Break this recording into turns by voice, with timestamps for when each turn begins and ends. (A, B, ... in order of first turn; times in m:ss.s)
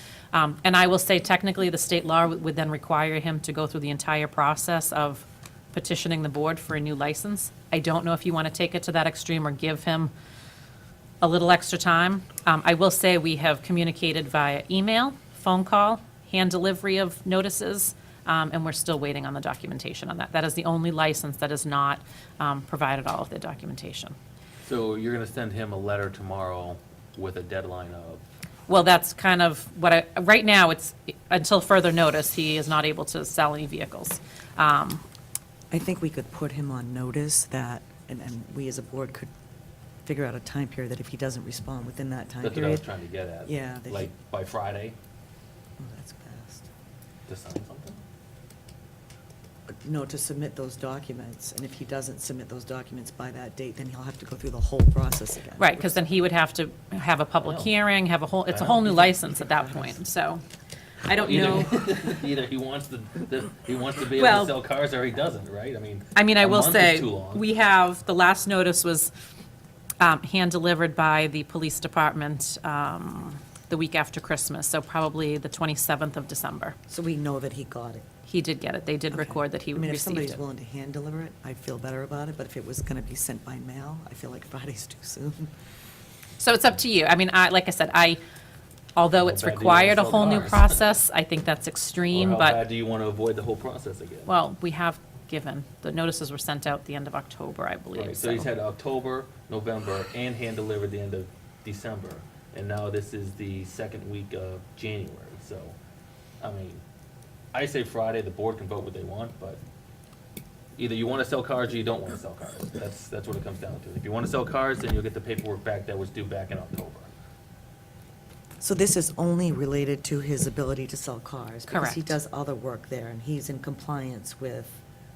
0:00.3-0:10.1 A
0:11.2-0:24.2 A
0:24.6-0:28.2 B
0:28.7-0:35.0 A
0:35.7-0:39.3 C
0:40.0-0:42.9 C
0:42.4-0:45.0 B
0:43.4-0:44.1 C
0:45.8-0:46.7 C
0:47.3-0:48.0 B
0:49.7-0:56.0 C
0:55.6-1:00.4 A
0:57.4-0:57.7 B
0:58.5-0:59.0 B
0:58.8-1:00.0 C
1:01.0-1:01.8 A
1:01.2-1:07.4 B
1:04.2-1:04.6 A
1:06.2-1:09.1 A
1:10.0-1:16.8 A
1:16.9-1:18.1 C
1:18.3-1:20.4 A
1:19.1-1:25.5 C
1:26.4-1:28.2 A
1:29.0-1:32.6 A
1:29.2-1:30.8 B
1:32.1-1:34.3 B
1:34.3-1:38.5 A
1:38.0-1:45.8 B
1:46.4-1:46.8 B
1:47.5-1:49.6 B
1:50.8-1:57.1 B
1:58.6-2:04.8 C
2:01.7-2:02.2 A